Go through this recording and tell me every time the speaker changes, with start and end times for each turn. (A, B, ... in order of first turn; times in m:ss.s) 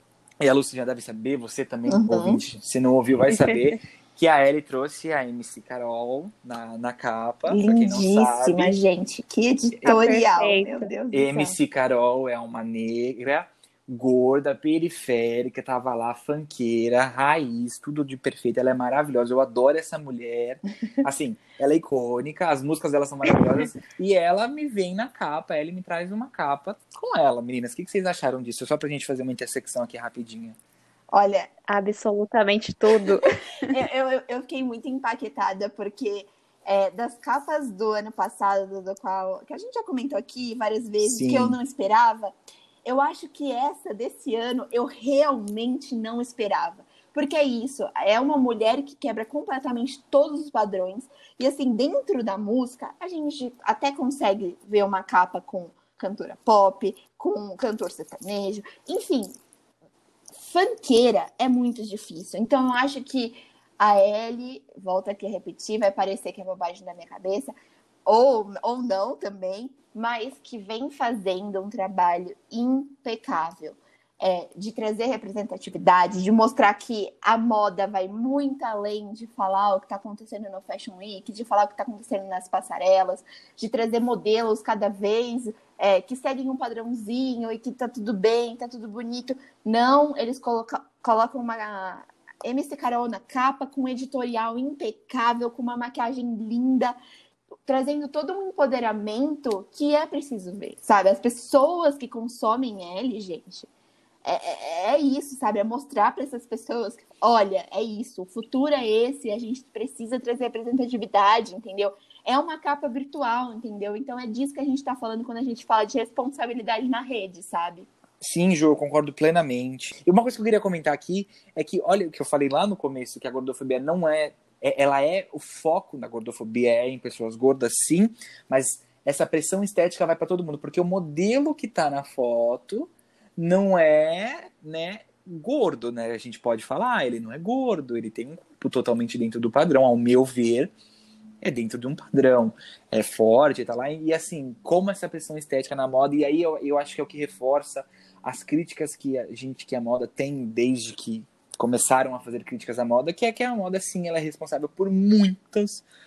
0:00.4-0:08.8 A
0:01.9-0:02.4 B
0:07.5-0:11.6 B
0:09.8-0:10.9 C
0:11.1-0:30.6 A
0:31.1-0:31.5 B
0:31.7-0:33.7 C
0:33.7-0:42.3 B
0:41.1-0:41.6 A
0:42.8-0:59.3 B
1:00.4-1:07.5 B
1:08.1-1:37.0 B
1:37.7-1:43.7 B
1:44.2-1:57.9 B
1:58.2-2:20.7 A
2:21.4-2:35.8 A